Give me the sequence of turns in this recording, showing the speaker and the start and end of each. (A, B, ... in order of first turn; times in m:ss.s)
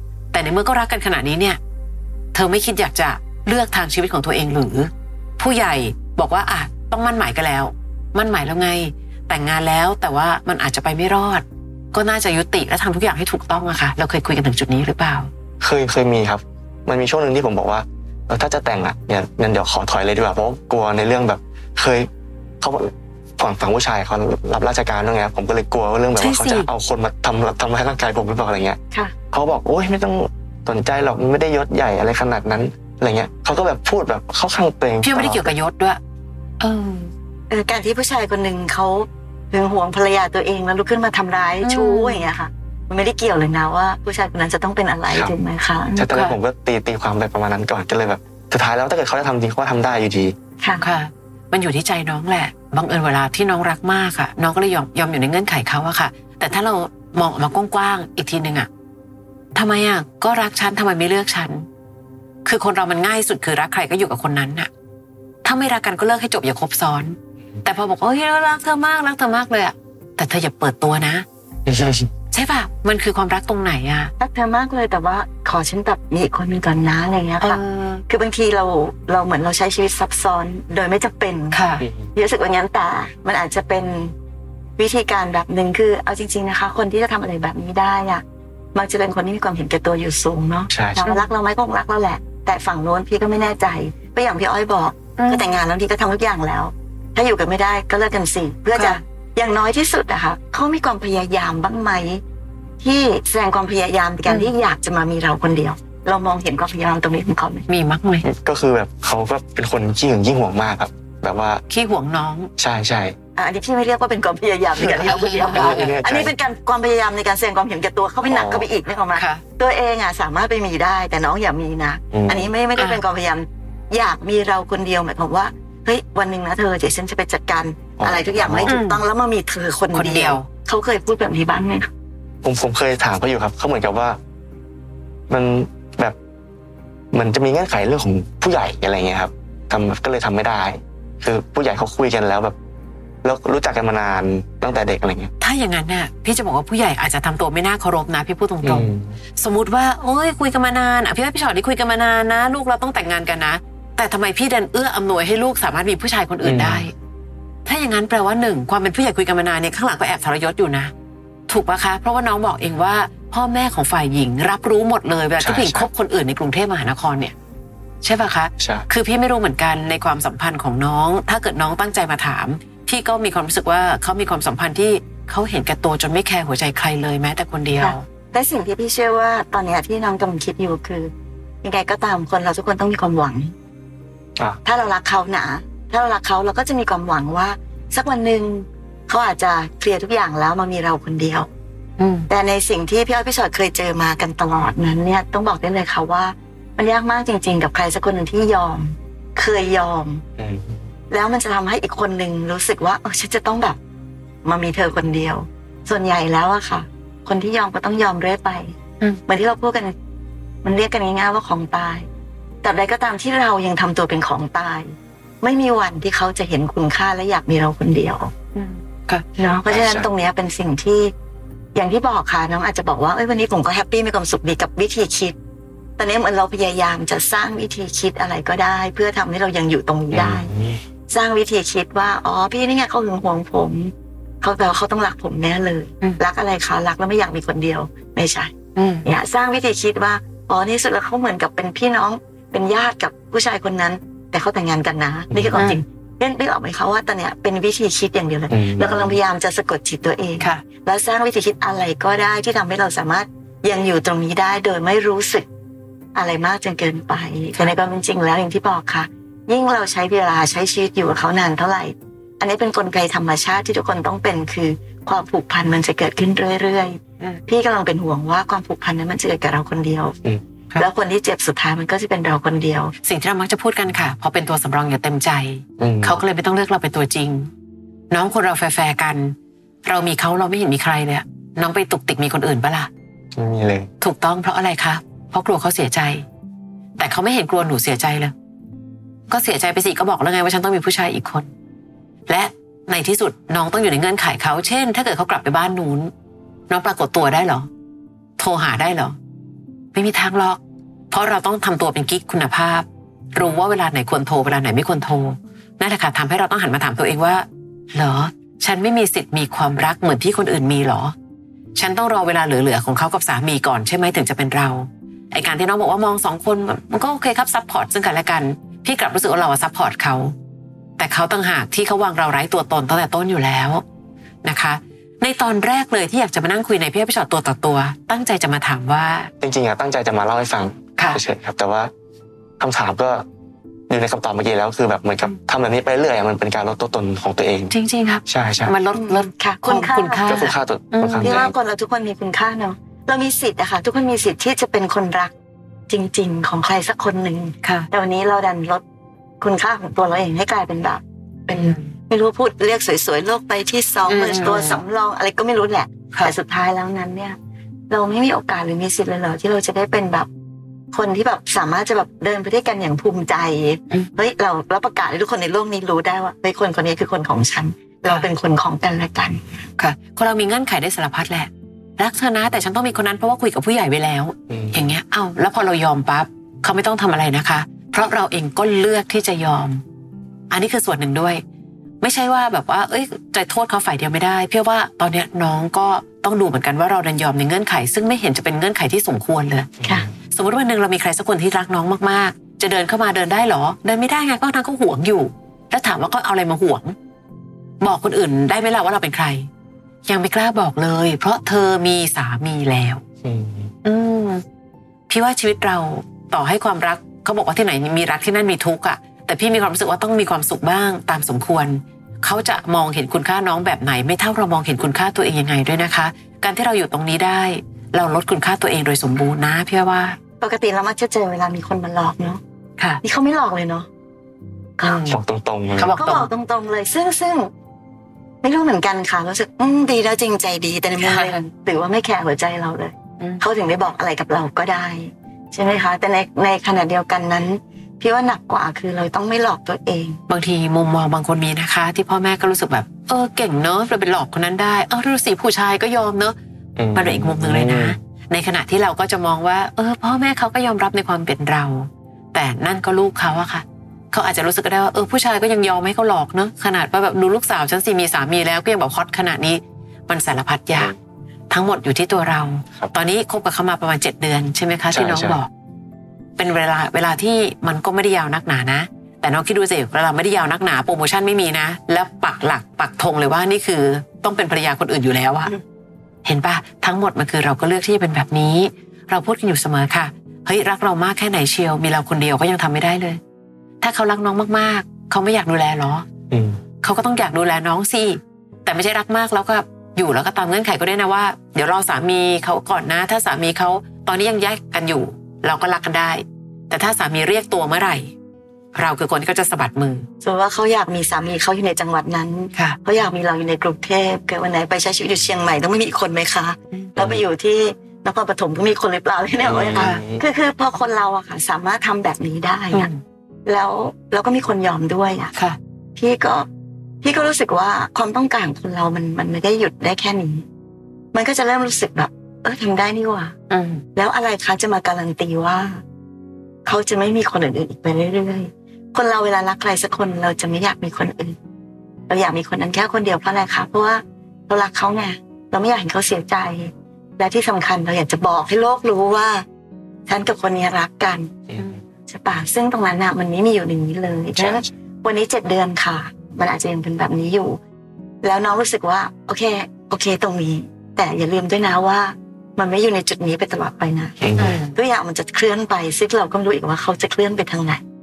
0:00.3-0:01.6 A
0:02.3-0:15.3 A
0:15.6-0:22.1 B
0:22.6-0:28.8 B
0:26.2-0:26.7 A
0:29.3-0:35.5 B
0:35.0-0:36.0 A
0:36.6-0:37.1 A
0:37.5-0:46.1 C
0:41.6-0:42.3 A
0:46.0-0:50.4 B
0:46.1-0:46.4 A
0:50.6-0:50.9 C
0:50.8-0:58.7 A
0:59.6-1:01.7 A
1:02.4-1:04.7 A
1:05.4-1:11.2 A
1:11.7-1:12.1 B
1:12.3-1:14.1 A
1:14.2-1:21.6 C
1:17.4-1:18.0 A
1:21.5-1:21.8 A
1:21.8-1:22.1 B
1:22.2-1:24.1 C
1:24.8-1:28.2 C
1:28.8-1:42.2 C
1:30.7-1:31.0 B
1:31.0-1:31.3 A
1:35.2-1:35.6 A
1:38.8-1:39.0 A
1:42.8-1:47.7 C
1:44.3-1:44.5 A
1:47.7-1:48.3 A
1:48.2-1:51.6 B
1:51.7-1:52.5 A
1:52.6-1:53.2 B
1:53.4-2:11.9 C
1:54.8-1:56.3 B
1:55.3-1:56.0 A
1:58.2-1:58.7 B
1:59.2-1:59.4 A
2:02.1-2:02.5 B
2:02.8-2:03.0 A
2:08.0-2:08.7 B
2:08.7-2:09.0 A
2:09.9-2:10.5 A
2:12.4-2:14.2 B
2:15.3-2:16.2 B
2:17.1-2:22.6 B
2:23.2-2:25.3 B
2:25.4-2:36.9 A
2:28.6-2:29.2 B
2:36.4-2:36.9 B
2:37.6-2:40.9 A
2:41.5-2:47.4 A
2:45.4-2:45.9 B
2:48.0-2:58.0 A
2:48.6-2:48.9 B
2:57.8-3:01.1 C
3:01.6-3:03.5 C
3:04.6-3:11.5 C
3:12.0-3:12.3 A
3:12.3-3:20.2 C
3:20.4-3:20.8 B
3:21.1-3:23.8 C
3:24.4-3:28.7 C
3:29.3-3:29.9 C
3:30.6-3:32.1 C
3:32.6-3:38.3 C
3:38.6-3:39.2 A
3:39.4-3:41.1 C
3:39.7-3:40.1 B
3:41.8-3:45.4 C
3:46.0-3:50.5 C
3:50.1-3:50.8 B
3:51.1-3:58.5 C
3:58.8-3:59.1 A
3:59.0-4:15.5 C
4:05.3-4:05.7 B
4:05.5-4:05.8 A
4:08.5-4:09.2 B
4:16.2-4:30.2 C
4:30.8-4:32.9 C
4:33.0-4:37.5 A
4:35.8-4:36.2 B
4:38.1-4:42.9 A
4:43.4-4:43.9 B
4:44.0-4:46.3 A
4:47.0-4:48.3 A
4:49.3-4:51.5 A
4:52.3-4:56.1 A
4:56.7-4:57.7 A
4:58.4-4:59.2 A
4:59.9-5:00.6 A
5:01.1-5:11.1 A
5:11.8-5:20.4 A
5:21.0-5:23.8 A
5:24.4-5:29.3 A
5:29.4-5:31.9 B
5:32.6-5:33.2 B
5:33.9-5:37.7 B
5:37.7-5:41.4 A
5:38.3-5:38.7 B
5:38.9-5:40.5 C
5:40.3-5:41.5 B
5:41.2-5:45.3 C
5:45.9-5:48.8 C
5:47.6-5:47.9 A
5:49.4-5:57.4 C
5:51.5-5:51.9 A
5:54.1-5:54.8 A
5:57.9-6:00.3 C
6:00.9-6:09.4 C
6:09.8-6:19.8 A
6:14.5-6:14.9 B
6:20.5-6:21.4 A
6:22.0-6:29.7 A
6:30.3-6:37.0 A
6:37.8-6:39.5 A
6:40.1-6:43.0 A
6:43.2-6:43.7 B
6:43.8-6:44.4 A
6:45.1-7:00.2 A
7:00.4-7:02.4 C
7:03.0-7:03.9 C
7:04.8-7:05.2 A
7:05.1-7:05.9 B
7:05.8-7:06.3 A
7:05.8-7:07.5 C
7:08.4-7:20.2 C
7:11.0-7:11.3 A
7:13.2-7:13.4 A
7:20.3-7:26.4 A
7:26.8-7:28.0 B
7:27.0-7:40.9 A
7:41.5-7:45.5 A
7:44.9-7:45.4 B
7:46.4-7:55.5 A
7:56.2-8:03.2 A
8:03.8-8:06.1 A
8:06.3-8:06.6 B
8:06.8-8:18.1 A
8:18.8-8:20.1 A
8:20.2-8:32.9 C
8:22.5-8:22.8 A
8:27.0-8:27.2 B
8:29.4-8:30.2 B
8:29.8-8:30.0 A
8:32.7-8:33.0 A
8:33.5-8:35.3 C
8:36.0-8:36.5 C
8:37.0-8:40.4 C
8:41.1-8:43.3 C
8:43.5-8:43.8 A
8:44.0-8:45.8 C
8:46.7-8:51.4 C
8:52.1-8:59.4 C
9:00.1-9:01.3 C
9:01.5-9:01.8 B
9:02.1-9:07.6 C
9:04.4-9:04.7 B
9:08.2-9:17.8 C
9:14.2-9:14.6 B
9:14.4-9:14.7 A